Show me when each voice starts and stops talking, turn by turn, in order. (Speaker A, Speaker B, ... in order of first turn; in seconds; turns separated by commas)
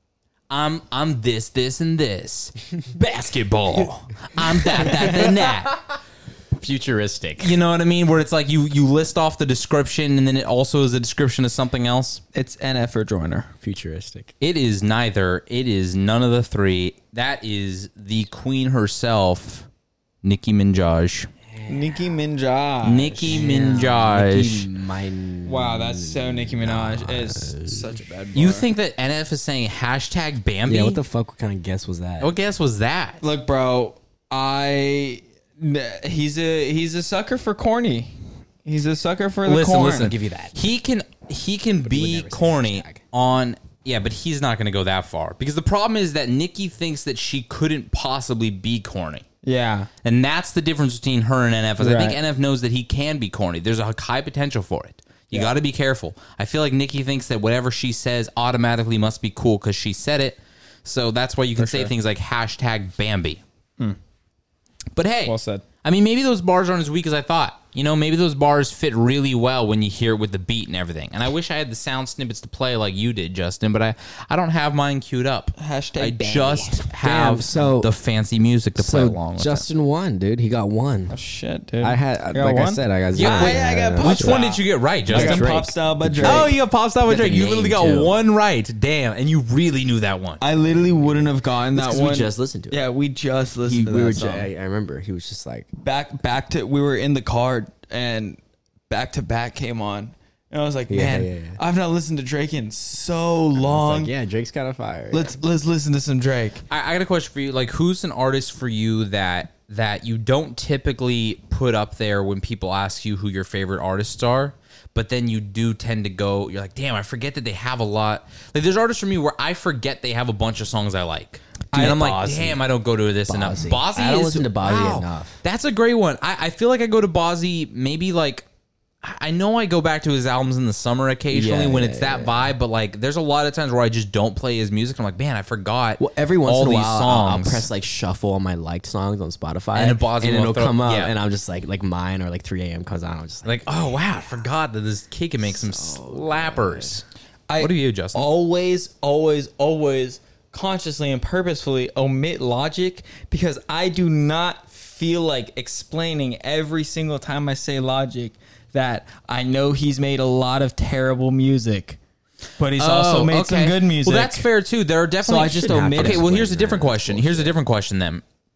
Speaker A: 0.5-5.8, Speaker B: 4.7-5.6, Speaker B: 6.5-7.6, Speaker A: 7.4-12.2, Speaker C: 12.3-13.5, Speaker B: 13.6-14.3, Speaker A: 14.4-19.7, Speaker A: 20.2-21.3, Speaker B: 21.5-22.1, Speaker C: 21.7-23.9, Speaker A: 22.8-24.7, Speaker B: 23.3-27.8, Speaker C: 25.4-28.7, Speaker A: 28.3-31.0, Speaker B: 30.6-32.3, Speaker A: 32.2-33.2, Speaker C: 33.2-40.1, Speaker A: 39.4-49.2, Speaker B: 40.0-40.5, Speaker B: 41.8-43.0, Speaker C: 49.4-49.9, Speaker A: 50.0-63.4, Speaker C: 51.8-52.2, Speaker C: 61.5-61.9, Speaker A: 64.9-79.7, Speaker C: 65.2-65.6, Speaker C: 75.5-76.8, Speaker B: 77.0-77.9, Speaker B: 78.8-81.1, Speaker C: 81.1-86.5, Speaker B: 81.8-84.4, Speaker A: 83.1-85.5, Speaker B: 85.1-86.5, Speaker A: 86.2-90.4, Speaker B: 87.0-88.1, Speaker C: 90.4-94.5, Speaker B: 91.7-92.8, Speaker B: 93.7-95.7, Speaker C: 95.8-104.1, Speaker B: 100.9-101.6, Speaker B: 103.6-105.3, Speaker C: 105.1-106.6, Speaker A: 106.7-128.4, Speaker C: 121.7-122.3, Speaker B: 121.8-122.6, Speaker B: 123.3-125.4, Speaker A: 129.0-137.7, Speaker B: 131.3-132.5, Speaker B: 136.0-144.1, Speaker A: 139.7-141.1, Speaker A: 143.4-147.0, Speaker B: 145.4-147.0, Speaker C: 147.5-162.0, Speaker A: 147.6-148.3, Speaker C: 162.6-164.5, Speaker A: 162.8-168.2, Speaker C: 165.2-166.3, Speaker B: 165.5-167.5